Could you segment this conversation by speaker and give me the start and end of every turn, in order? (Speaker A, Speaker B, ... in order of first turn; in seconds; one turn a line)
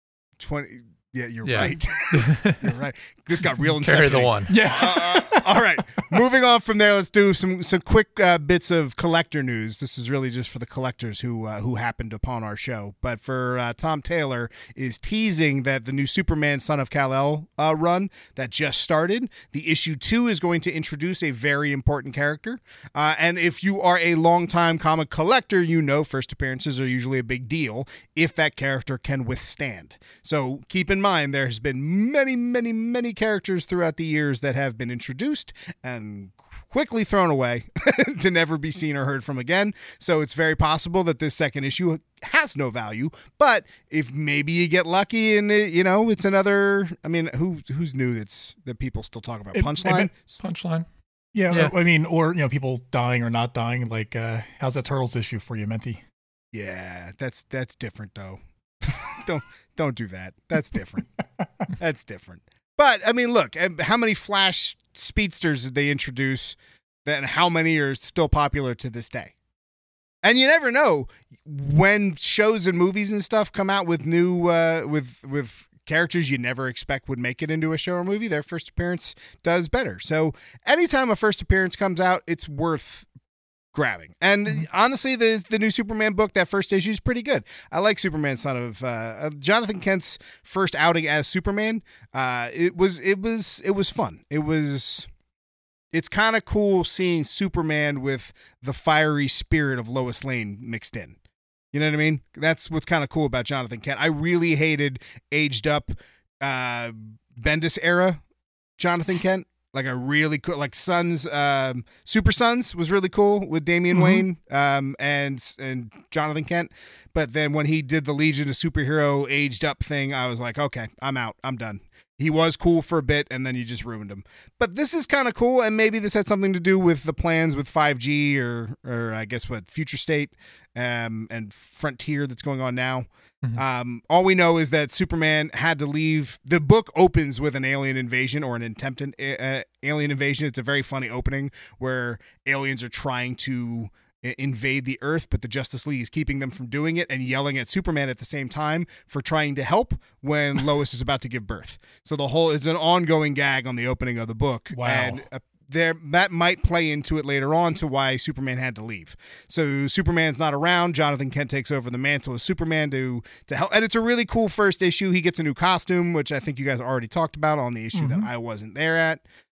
Speaker A: 0.4-50.4
Speaker B: 1.4-2.7
Speaker B: 3.8-4.6
Speaker C: 4.5-5.5
Speaker C: 49.5-50.1
Speaker B: 50.4-50.9
Speaker C: 51.3-56.0
Speaker A: 56.5-61.1
Speaker A: 61.7-69.3
Speaker A: 70.2-83.1
Speaker A: 83.7-95.1
Speaker A: 95.9-101.2
Speaker A: 101.7-108.2
Speaker A: 108.8-169.2
Speaker C: 113.9-114.2
Speaker C: 154.7-155.2
Speaker C: 167.9-168.3